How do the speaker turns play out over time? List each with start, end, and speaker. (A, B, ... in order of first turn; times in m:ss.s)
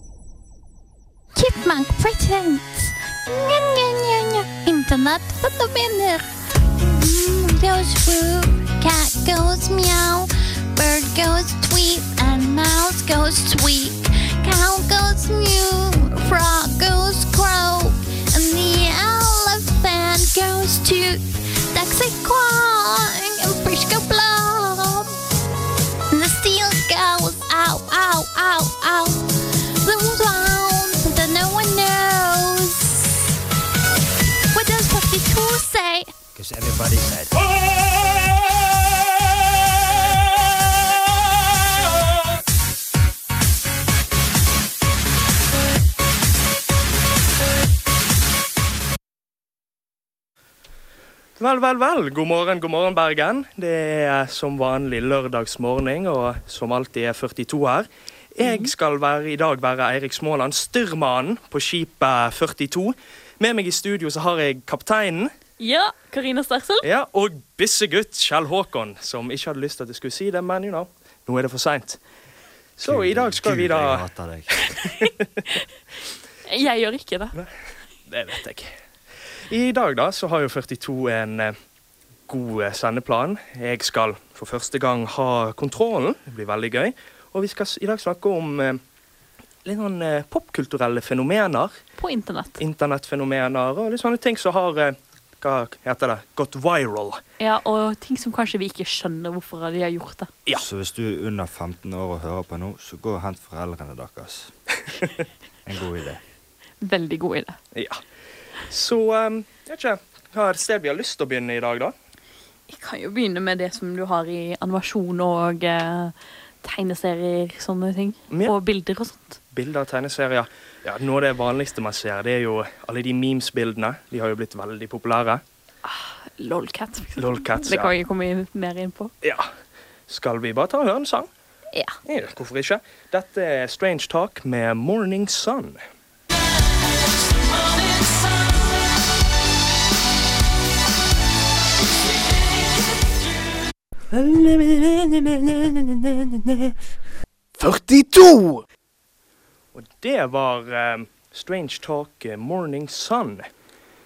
0:01.4-0:06.2 A
0:06.8-0:25.1 A
0:26.1-0:33.1 A
0:34.5-0:36.1 A
0:36.4-0:37.4 B
0:51.4-1:05.3 C
0:58.4-0:58.7 D
1:05.6-1:06.9 D
1:06.8-1:12.0 C
1:12.8-1:15.1 C
1:12.8-1:14.7 B
1:16.5-1:17.4 D
1:18.1-1:18.7 C
1:19.5-1:21.6 C
1:22.3-1:28.8 C
1:29.6-1:31.8 C
1:32.0-1:32.6 D
1:32.6-1:37.2 C
1:37.4-1:40.3 D
1:40.5-1:44.5 B
1:45.6-1:46.2 B
1:46.8-1:47.6 D
1:47.7-1:48.0 C
1:48.7-1:51.9 C
1:52.7-1:59.4 D
1:59.5-2:05.4 C
2:05.8-2:09.1 D
2:07.2-2:07.9 C
2:09.2-2:09.5 C
2:10.1-2:11.3 C
2:12.0-2:15.8 C
2:24.1-2:25.5 C
2:26.4-2:26.7 C
2:27.6-2:28.6 C
2:29.7-2:33.5 C